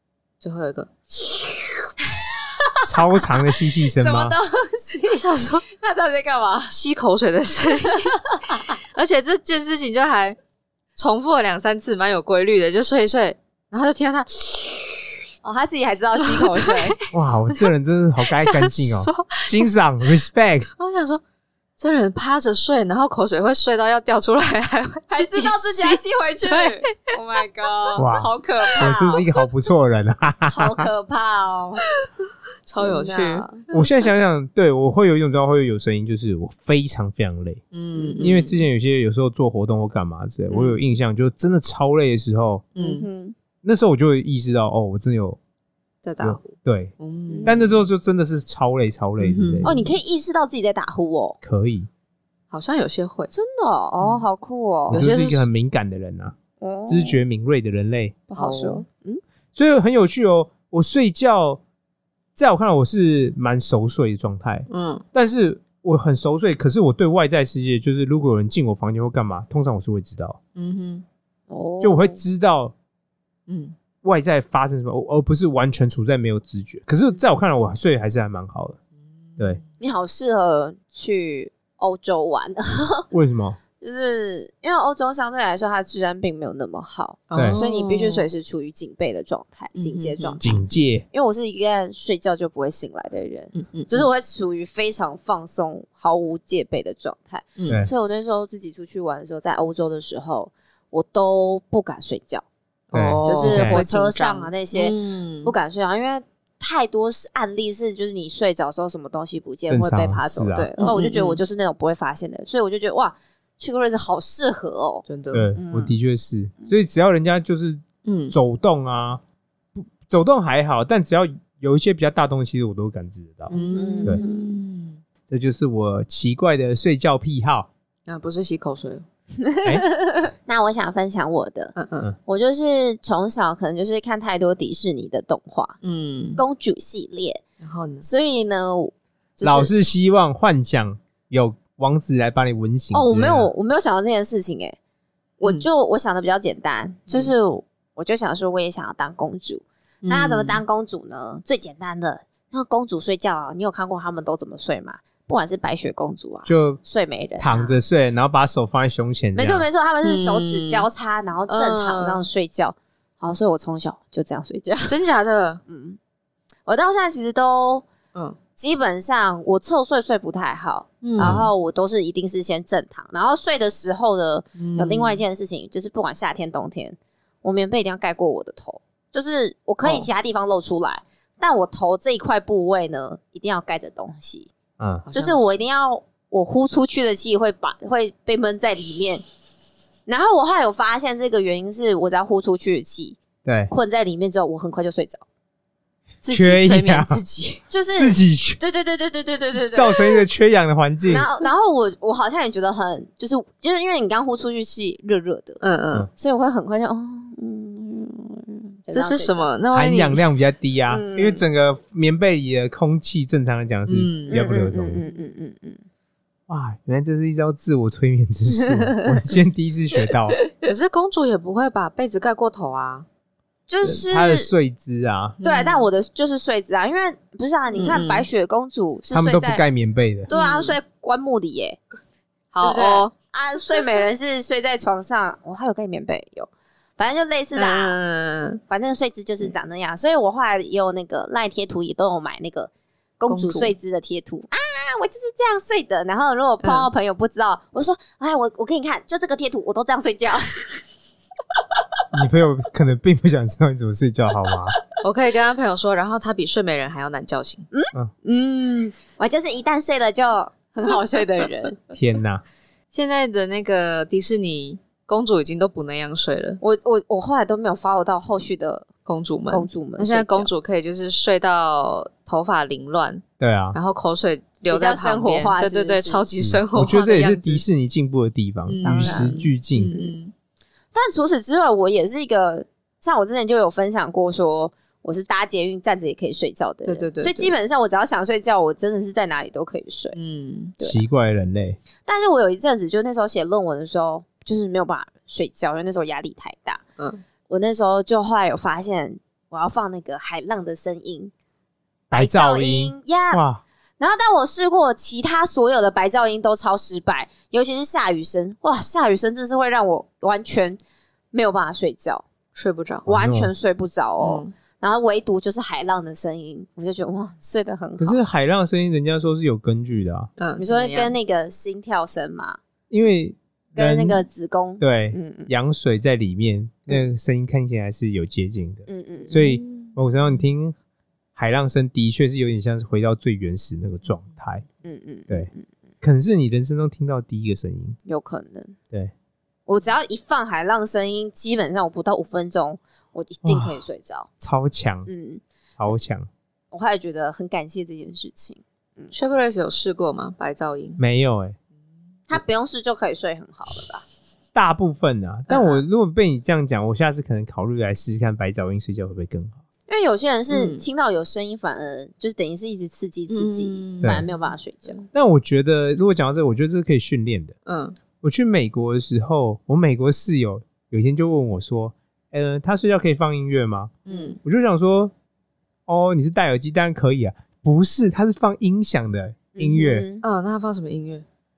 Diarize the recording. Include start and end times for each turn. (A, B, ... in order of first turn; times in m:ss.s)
0:00.4-0:01.4 A
0:02.9-0:04.4 B
0:03.8-0:06.8 C
0:05.1-0:05.6 A
0:06.7-0:08.2 A
0:08.7-0:10.4 A
0:11.0-0:15.0 A
0:15.4-0:17.0 C
0:16.2-0:17.0 A
0:17.1-0:20.7 B
0:18.2-0:19.7 A
0:20.8-0:21.2 A
0:21.8-0:26.9 A
0:25.1-0:29.2 C
0:28.0-0:30.9 B
0:28.8-0:29.4 A
0:30.5-0:31.8 C
0:32.6-0:33.7 A
0:32.8-0:33.5 C
0:33.7-0:37.6 B
0:37.7-0:38.6 A
0:37.9-0:38.3 C
0:38.2-0:42.6 B
0:40.5-0:40.8 C
0:42.8-0:43.0 A
0:42.8-0:43.4 C
0:43.6-0:45.4 B
0:46.0-0:47.6 A
0:46.2-0:46.9 B
0:47.3-0:47.6 C
0:47.4-0:49.8 B
0:49.2-0:50.0 A
0:49.6-0:51.4 C
0:51.4-0:51.9 B
0:52.5-0:53.3 A
0:53.3-0:55.0 C
0:54.0-0:54.2 A
0:54.9-0:56.3 B
0:54.9-0:55.5 A
0:56.6-0:57.2 C
0:56.9-0:58.2 B
0:58.3-0:58.8 A
0:58.4-0:59.2 C
0:59.5-1:01.6 B
1:02.4-1:10.4 B
1:04.7-1:05.0 A
1:10.6-1:11.0 A
1:11.5-1:12.2 C
1:11.8-1:12.7 B
1:13.5-1:13.8 A
1:14.0-1:18.8 B
1:19.3-1:19.6 A
1:19.8-1:23.1 C
1:23.1-1:23.6 B
1:23.8-1:42.4 C
1:27.3-1:28.3 A
1:27.3-1:27.6 B
1:29.8-1:30.6 A
1:30.4-1:31.0 B
1:33.5-1:34.1 A
1:42.9-1:45.6 A
1:42.9-1:43.8 B
1:43.2-1:55.0 C
1:49.7-1:50.7 B
1:50.8-1:51.4 A
1:55.0-1:55.5 A
1:55.3-1:59.2 B
1:55.6-1:55.9 C
1:58.0-1:58.3 A
1:59.8-2:03.5 B
2:03.5-2:05.0 A
2:03.5-2:04.5 C
2:05.3-2:07.7 B
2:08.1-2:09.0 A
2:09.4-2:11.8 C
2:11.8-2:12.1 A
2:12.2-2:15.8 C
2:15.8-2:16.4 A
2:16.4-2:17.4 C
2:17.6-2:18.1 A
2:18.0-2:19.7 C
2:19.4-2:23.5 B
2:22.9-2:24.8 C
2:25.4-2:37.8 C
2:27.1-2:27.3 A
2:30.0-2:30.6 A
2:36.4-2:36.8 B
2:37.4-2:39.7 B
2:39.3-2:44.9 C
2:40.0-2:40.9 A
2:41.5-2:42.3 A
2:44.9-2:45.6 A
2:45.7-2:46.0 C
2:46.6-2:47.8 C
2:48.6-3:04.5 C
2:51.0-2:51.5 A
2:51.2-2:51.5 B
2:54.6-2:55.2 A
2:59.8-3:00.1 A
3:04.8-3:05.1 B
3:05.1-3:05.4 A
3:05.1-3:09.2 C
3:10.0-3:13.2 C
3:13.4-3:13.7 B
3:13.7-3:15.2 C
3:16.2-3:17.6 A
3:16.3-3:17.2 B
3:17.7-3:20.0 C
3:18.0-3:18.6 B
3:19.7-3:21.2 B
3:21.1-3:25.6 C
3:25.6-3:26.1 A
3:26.2-3:29.5 C
3:28.9-3:30.2 A
3:29.7-3:35.0 B
3:30.9-3:31.4 C
3:33.9-3:34.4 A
3:34.3-3:35.8 C
3:36.5-3:40.4 B
3:38.5-3:39.1 C
3:40.6-3:43.0 A
3:43.7-3:44.5 C
3:43.8-3:45.4 B
3:45.4-3:45.9 A
3:45.4-3:49.6 C
3:47.7-3:48.3 A
3:49.1-3:50.3 B
3:50.3-3:50.8 A
3:50.3-3:51.8 C
3:52.5-3:53.1 A
3:52.6-3:58.0 C
3:57.5-3:58.6 A
3:58.7-4:10.9 C
4:03.3-4:03.8 A
4:06.6-4:06.9 A
4:12.1-4:14.7 B
4:15.0-4:17.6 A
4:17.7-4:21.8 C
4:21.9-4:22.4 B
4:22.9-4:26.6 A
4:26.6-4:28.9 C
4:29.0-4:33.2 A
4:29.5-4:30.5 C
4:33.4-4:33.8 B
4:33.7-4:37.6 A
4:34.7-4:36.2 C
4:36.4-4:40.0 B
4:38.7-4:40.3 A
4:38.8-4:39.4 C
4:40.9-4:50.2 C
4:46.8-4:47.6 A
4:50.1-4:50.8 A
4:50.8-4:51.0 C
4:50.8-4:51.8 B
4:52.0-4:56.8 C
4:57.5-5:01.3 C
5:02.1-5:03.4 C
5:02.1-5:03.6 B
5:04.0-5:10.8 C
5:11.3-5:12.2 C
5:12.5-5:13.1 A
5:13.0-5:13.5 B
5:13.1-5:18.2 C
5:14.2-5:14.5 A
5:18.0-5:20.3 B
5:20.4-5:21.1 A
5:20.6-5:22.6 C
5:22.9-5:24.2 B
5:23.8-5:25.5 C
5:24.8-5:30.8 B
5:28.9-5:29.3 C
5:29.3-5:29.9 A
5:31.4-5:34.6 B
5:34.8-5:35.7 C
5:36.0-5:38.0 B
5:38.0-5:38.8 C
5:39.7-5:44.3 C
5:43.4-5:43.8 B
5:44.4-5:45.1 B
5:45.1-5:45.9 C
5:45.8-5:46.3 B
5:46.7-5:49.1 C
5:49.1-5:51.0 A
5:51.0-5:51.6 B
5:52.3-5:54.0 C
5:54.5-5:59.6 B
5:55.5-5:55.8 A
5:59.9-6:05.1 C
6:00.5-6:00.8 A
6:03.3-6:04.3 A
6:04.0-6:04.2 B
6:05.1-6:07.6 B
6:07.6-6:08.0 A
6:08.2-6:15.1 B
6:14.0-6:14.4 A
6:15.9-6:20.1 B
6:19.6-6:20.2 C
6:20.2-6:21.2 A